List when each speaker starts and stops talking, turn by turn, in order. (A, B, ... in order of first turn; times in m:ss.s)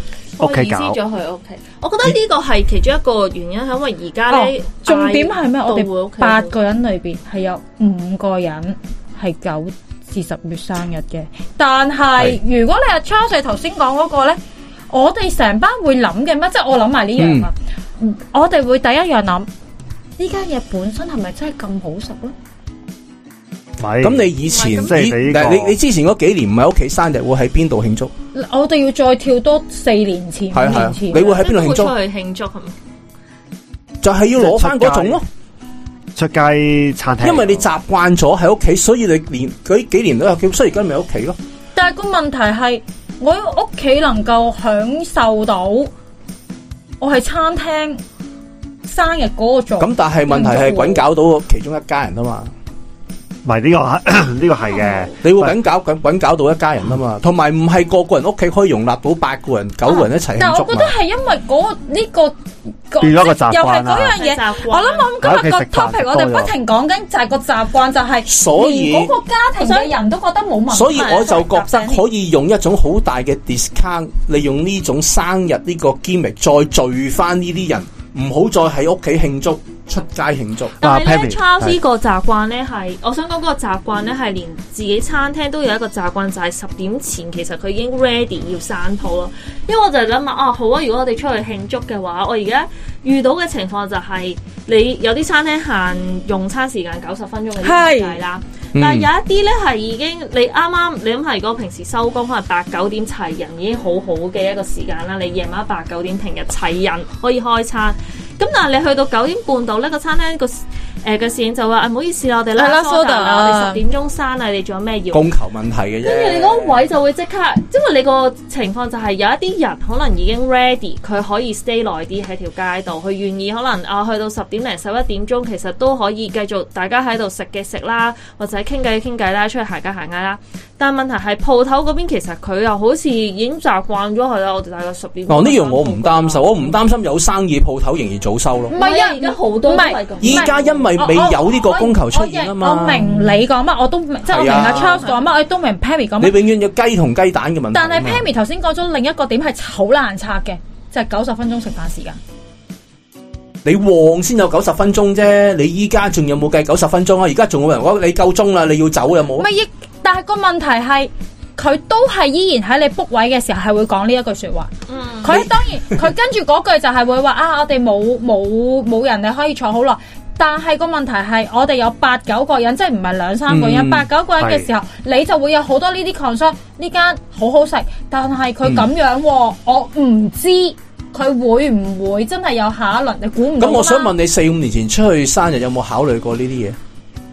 0:00.4-0:06.5 A
0:00.4-0:01.0 B
0:04.3-0:14.4 C
0:14.9-0:19.5 C
0:17.2-0:17.5 D
0:20.2-0:22.3 C
0:23.8-0:25.8 B
0:24.0-0:28.1 D
0:24.5-0:24.9 A
0:28.3-0:31.4 C
0:30.5-0:31.9 D
0:31.2-0:32.8 A
0:34.0-0:35.2 D
0:34.4-0:35.2 B
0:36.2-0:37.7 B
0:37.2-0:41.4 D
0:41.8-0:45.9 C
0:47.0-0:48.0 C
0:48.8-0:51.0 C
0:49.8-0:52.5 D
0:53.4-0:55.5 B
0:55.2-1:00.9 D
0:59.9-1:02.4 C
1:02.9-1:12.0 C
1:03.0-1:04.2 B
1:04.0-1:05.1 A
1:05.2-1:06.5 B
1:08.3-1:09.2 D
1:09.6-1:09.9 A
1:10.7-1:20.8 D
1:10.9-1:11.4 A
1:20.8-1:21.8 B
1:20.8-1:55.3 A
1:37.6-1:38.2 C
1:38.7-1:39.1 D
1:52.6-1:53.8 C
1:55.1-1:56.8 D
1:56.0-2:16.8 A
2:15.3-2:18.8 D
2:18.7-2:26.4 C
2:18.7-2:20.9 A
2:20.2-2:23.3 D
2:24.3-2:25.2 A
2:24.3-2:25.0 D
2:26.2-2:28.2 D
2:27.7-2:32.2 C
2:33.6-2:39.5 D
2:39.4-2:44.7 C
2:44.9-2:45.4 A
2:45.2-3:04.1 C
2:45.3-2:46.0 D
2:53.5-2:54.1 D
2:54.4-2:54.7 B
3:03.6-3:06.8 D